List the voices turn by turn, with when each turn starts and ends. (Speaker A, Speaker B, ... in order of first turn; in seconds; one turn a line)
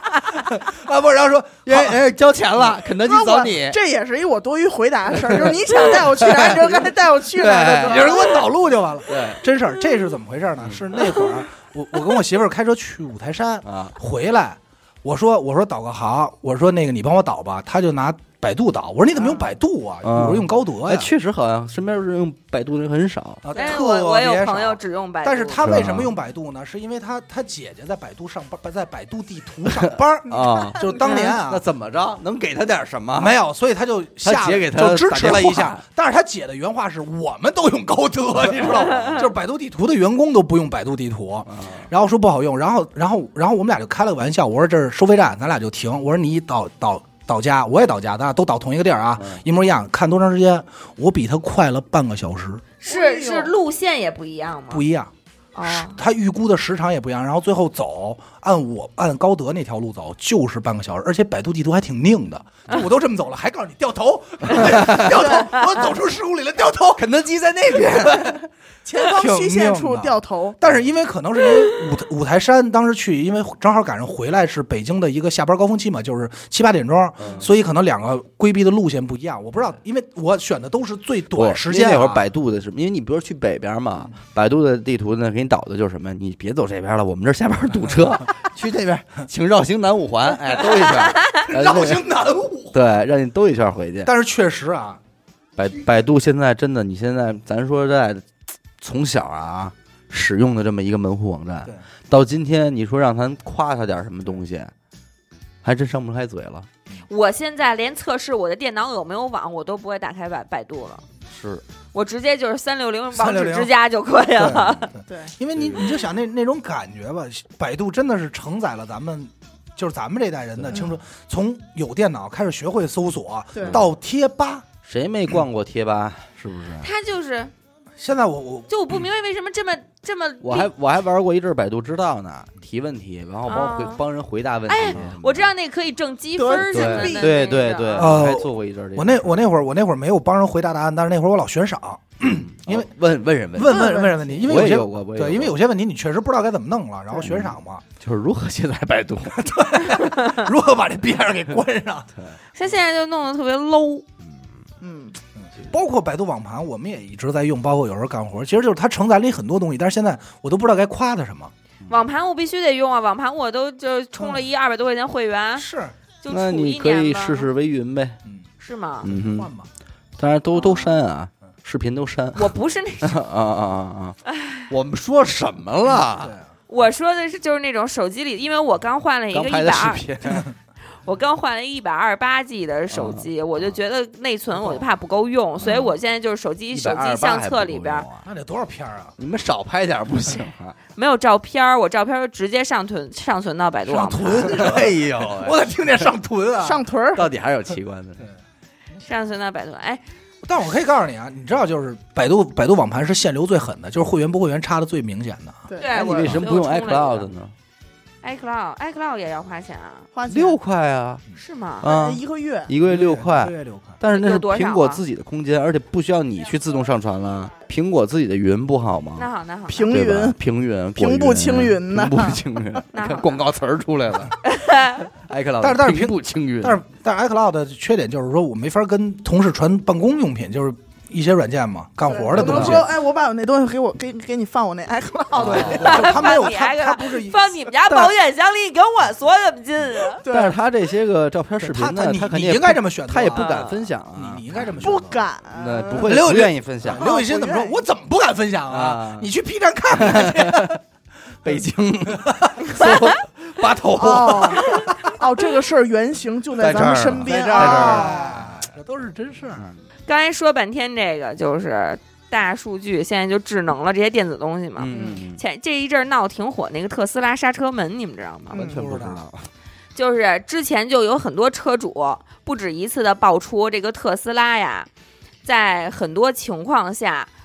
Speaker A: 0.3-2.0
Speaker B: 1.6-3.8
Speaker C: 3.0-8.4
Speaker B: 5.1-8.2
Speaker A: 7.8-21.1
Speaker B: 9.1-9.4
Speaker B: 10.6-10.8
Speaker B: 13.6-13.9
Speaker B: 20.0-23.4
Speaker A: 23.4-31.6
Speaker D: 23.5-25.8
Speaker B: 25.6-26.1
Speaker B: 29.6-33.4
Speaker D: 31.0-31.3
Speaker A: 33.1-52.6
Speaker B: 34.2-35.8
Speaker B: 38.4-39.2
Speaker D: 38.9-39.2
Speaker B: 41.5-41.8
Speaker B: 49.2-49.4
Speaker D: 52.8-54.8
Speaker C: 52.8-53.5
Speaker A: 54.7-55.1
Speaker D: 55.5-56.0
Speaker A: 55.6-67.0
Speaker B: 64.6-65.1
Speaker C: 65.2-65.5
Speaker B: 67.0-68.4
Speaker C: 68.8-70.6
Speaker A: 69.0-82.2
Speaker B: 77.2-77.5
Speaker B: 81.3-92.1
Speaker A: 91.3-92.8
Speaker B: 92.7-94.1
Speaker A: 94.0-95.0
Speaker B: 95.5-98.3
Speaker B: 98.8-104.7
Speaker B: 105.6-106.7
Speaker D: 107.1-111.0
Speaker B: 111.3-111.6
Speaker D: 111.9-114.9
Speaker A: 113.1-113.7
Speaker A: 114.3-124.7
Speaker C: 115.1-115.3
Speaker B: 115.5-115.9
Speaker B: 120.6-120.9
Speaker C: 123.5-123.8
Speaker B: 123.6-123.9
Speaker B: 124.8-126.9
Speaker D: 126.8-127.5
Speaker A: 128.0-128.7
Speaker D: 128.7-130.7
Speaker B: 130.4-135.5
Speaker D: 133.5-134.0
Speaker D: 134.7-138.2
Speaker C: 136.3-137.5
Speaker B: 136.6-139.4
Speaker A: 138.0-142.9
Speaker B: 142.2-145.6
Speaker A: 143.5-147.8
Speaker C: 143.7-144.5
Speaker B: 147.2-149.4
Speaker A: 149.3-152.1
Speaker D: 152.5-154.1
Speaker C: 154.8-155.2
Speaker A: 155.3-161.5
Speaker D: 161.9-165.7
Speaker A: 164.2-164.4
Speaker A: 165.6-165.9
Speaker D: 166.2-167.5
Speaker B: 166.3-168.2
Speaker D: 168.6-169.1
Speaker B: 169.0-169.5
Speaker A: 169.0-169.7
Speaker B: 170.2-174.2
Speaker D: 172.3-173.2
Speaker D: 174.3-174.7
Speaker B: 174.7-176.3
Speaker A: 175.9-176.5
Speaker D: 176.7-180.0
Speaker B: 179.3-180.5
Speaker D: 181.0-188.1
Speaker B: 182.9-183.7
Speaker B: 185.6-185.9
Speaker B: 186.7-188.2
Speaker A: 188.2-189.1
Speaker B: 189.2-190.8
Speaker D: 190.9-194.8
Speaker A: 193.9-196.8
Speaker B: 194.5-195.6
Speaker C: 196.6-197.3
Speaker B: 197.1-198.2
Speaker D: 199.0-200.0
Speaker A: 200.4-206.4
Speaker D: 205.8-207.3
Speaker B: 205.9-207.5
Speaker D: 208.2-210.1
Speaker C: 210.1-210.6
Speaker B: 210.3-211.2
Speaker D: 211.4-211.9
Speaker B: 211.8-219.3
Speaker C: 211.8-212.7
Speaker A: 212.8-214.0
Speaker D: 214.1-215.0
Speaker D: 219.2-219.9
Speaker C: 219.7-220.4
Speaker B: 219.8-224.4
Speaker C: 220.9-222.4
Speaker D: 222.9-223.4
Speaker D: 224.4-225.1
Speaker B: 225.1-226.8
Speaker A: 225.6-232.9
Speaker C: 232.1-236.2
Speaker B: 232.3-232.9
Speaker A: 235.3-237.6
Speaker B: 235.3-236.1
Speaker D: 235.6-240.2
Speaker B: 237.9-238.1
Speaker C: 240.2-240.6
Speaker B: 240.2-244.9
Speaker A: 241.6-245.2
Speaker D: 243.3-243.8
Speaker C: 244.8-246.1
Speaker B: 245.5-247.1
Speaker A: 245.9-250.8
Speaker C: 246.9-247.8
Speaker B: 248.7-249.3
Speaker B: 249.9-250.8
Speaker B: 251.4-254.9
Speaker A: 251.4-253.0
Speaker C: 253.9-258.4
Speaker A: 254.2-255.1
Speaker B: 256.6-258.5
Speaker A: 257.2-259.7
Speaker D: 260.1-268.6
Speaker B: 264.8-265.4
Speaker C: 264.9-265.2
Speaker B: 268.5-269.5
Speaker C: 268.5-268.8
Speaker A: 268.5-269.2
Speaker D: 269.9-274.9
Speaker D: 275.4-277.3